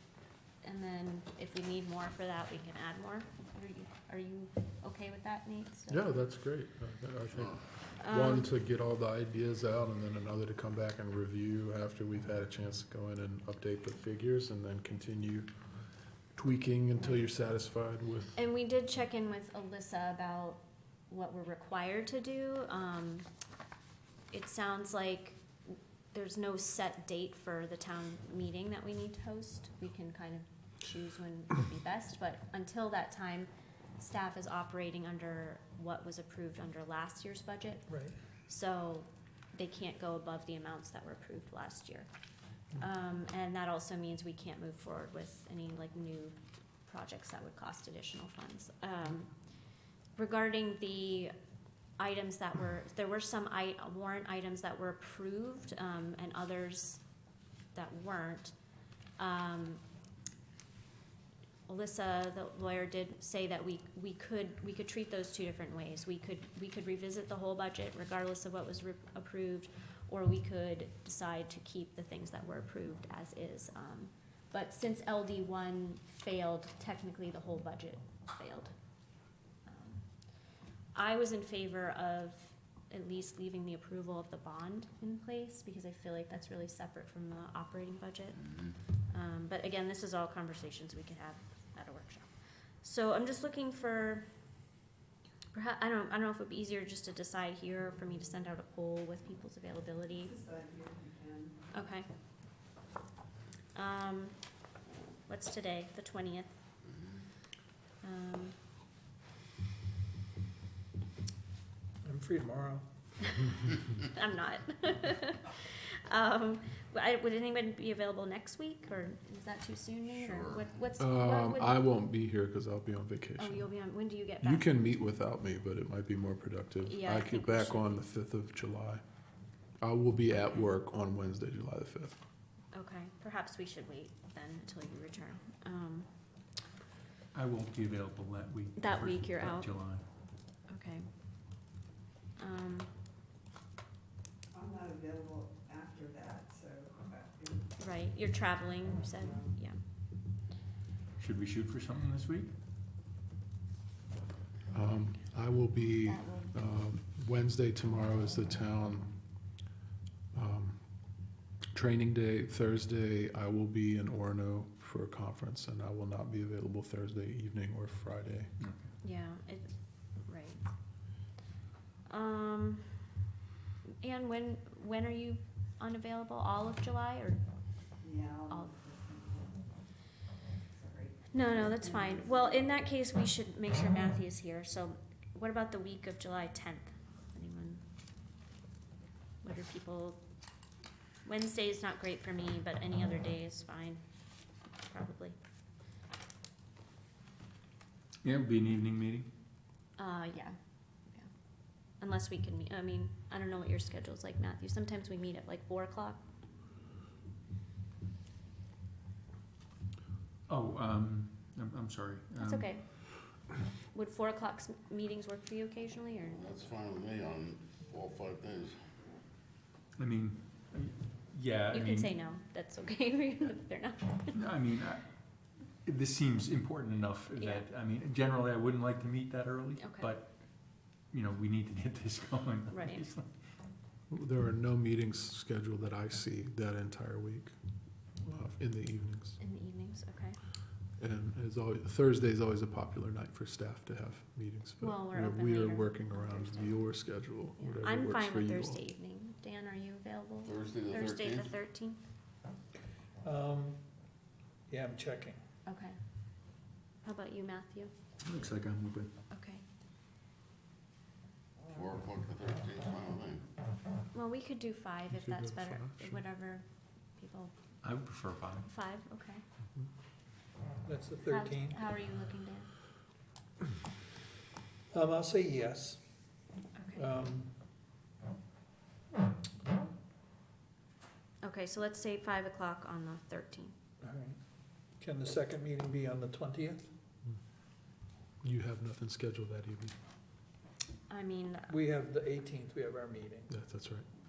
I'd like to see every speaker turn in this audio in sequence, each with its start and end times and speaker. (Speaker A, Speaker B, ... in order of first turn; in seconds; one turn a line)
Speaker A: 0.6-6.1
Speaker B: 5.9-15.5
Speaker A: 8.0-8.5
Speaker B: 16.4-18.4
Speaker A: 18.4-23.3
Speaker A: 24.3-25.4
Speaker A: 26.1-37.9
Speaker C: 37.9-38.2
Speaker A: 38.5-42.1
Speaker A: 42.8-49.3
Speaker A: 50.2-51.3
Speaker A: 52.0-57.0
Speaker A: 57.7-58.5
Speaker A: 59.2-59.8
Speaker A: 61.7-78.7
Speaker A: 79.7-80.1
Speaker A: 80.9-88.5
Speaker A: 89.1-92.3
Speaker A: 92.8-94.3
Speaker A: 95.5-100.4
Speaker D: 100.4-101.5
Speaker A: 101.7-102.1
Speaker A: 103.7-104.4
Speaker A: 105.3-106.6
Speaker A: 108.0-108.6
Speaker C: 112.0-113.3
Speaker A: 113.2-121.8
Speaker E: 120.2-120.6
Speaker B: 121.0-123.7
Speaker A: 123.4-124.7
Speaker B: 124.4-129.0
Speaker A: 126.8-128.0
Speaker B: 129.8-132.2
Speaker A: 132.7-136.1
Speaker F: 137.3-140.1
Speaker A: 138.8-139.7
Speaker A: 140.7-141.1
Speaker A: 142.4-142.9
Speaker D: 144.5-147.6
Speaker A: 147.8-149.8
Speaker F: 151.2-152.5
Speaker B: 154.7-159.2
Speaker A: 156.0-156.6
Speaker B: 160.3-160.8
Speaker B: 161.7-168.5
Speaker F: 168.6-168.9
Speaker A: 169.0-170.7
Speaker A: 172.1-172.9
Speaker A: 174.0-177.4
Speaker D: 178.0-179.6
Speaker A: 178.5-178.7
Speaker D: 180.8-181.3
Speaker A: 181.3-187.8
Speaker A: 189.4-190.2
Speaker A: 191.2-194.0
Speaker A: 194.8-195.3
Speaker F: 198.2-199.3
Speaker A: 200.0-200.6
Speaker A: 202.0-206.2
Speaker F: 210.5-212.8
Speaker A: 212.4-213.2
Speaker A: 213.9-216.5
Speaker E: 216.3-218.8
Speaker F: 220.0-222.1
Speaker A: 221.7-224.4
Speaker F: 224.3-225.1
Speaker F: 225.8-233.3
Speaker A: 227.4-227.7
Speaker A: 229.8-230.1
Speaker A: 232.7-233.1
Speaker B: 234.1-237.5
Speaker B: 238.2-239.4
Speaker A: 239.4-240.4
Speaker B: 241.0-248.8
Speaker A: 244.8-246.8
Speaker A: 247.6-252.0
Speaker E: 250.4-251.5
Speaker C: 253.2-253.8
Speaker C: 254.7-255.4
Speaker A: 255.7-256.0
Speaker A: 257.0-257.9
Speaker F: 258.2-259.2
Speaker A: 259.3-259.6
Speaker E: 261.8-263.4
Speaker A: 264.1-266.6
Speaker B: 265.2-266.2
Speaker A: 267.2-267.5
Speaker F: 267.8-268.7
Speaker A: 268.6-269.4
Speaker C: 270.9-271.8
Speaker A: 271.3-272.7
Speaker C: 274.9-276.0
Speaker A: 276.8-277.1
Speaker C: 276.9-277.5
Speaker A: 281.4-283.8
Speaker C: 284.0-284.4
Speaker C: 285.0-286.9
Speaker B: 288.4-290.0
Speaker A: 291.1-291.8
Speaker C: 291.7-293.5
Speaker B: 293.5-294.1